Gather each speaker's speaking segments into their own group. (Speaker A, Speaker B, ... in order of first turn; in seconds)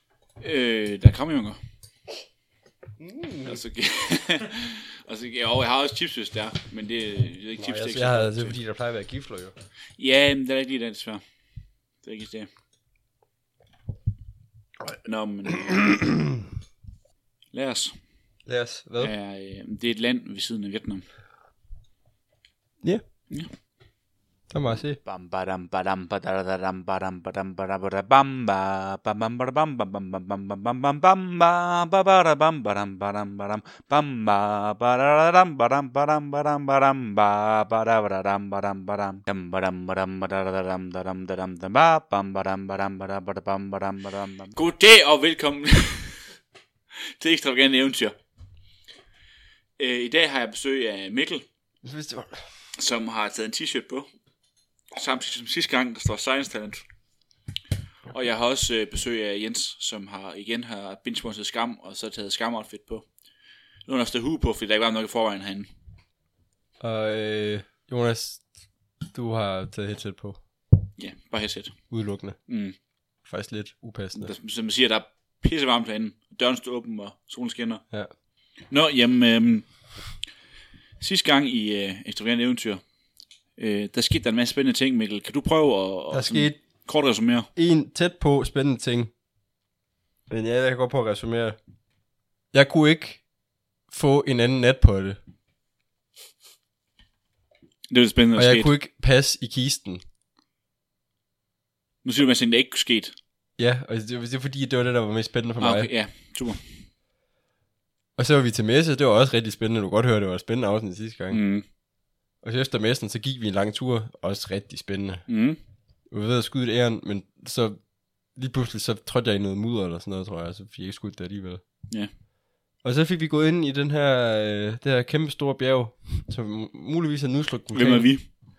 Speaker A: 0.4-1.6, 3.4-8.6, 10.0-11.2, 12.0-12.5, 15.0-15.9, 17.5-17.9, 19.0-21.0, 44.5-46.3, 47.2-48.1, 49.8-51.4, 52.8-54.1, 54.9-56.8, 58.1-63.0, 63.9-65.7, 71.0-71.7, 72.5-72.8, 74.1-77.8, 78.7-79.7, 81.0-82.8, 83.6-87.5, 97.9-98.7, 102.0-103.1, 105.6-106.6, 111.3-111.6, 115.3-115.6, 127.7-128.2
Speaker B: 3.0-3.6, 7.6-9.5, 18.4-19.1, 24.5-25.0, 51.8-52.4, 66.8-68.4, 69.1-70.4, 71.9-72.4, 73.2-74.3, 86.1-86.6, 87.5-89.1, 90.3-91.6, 92.5-93.2, 93.9-95.2, 98.3-100.0, 103.6-105.9, 108.2-111.4, 112.4-115.2, 116.1-117.8, 118.3-121.6, 122.8-128.1
Speaker C: 25.0-44.5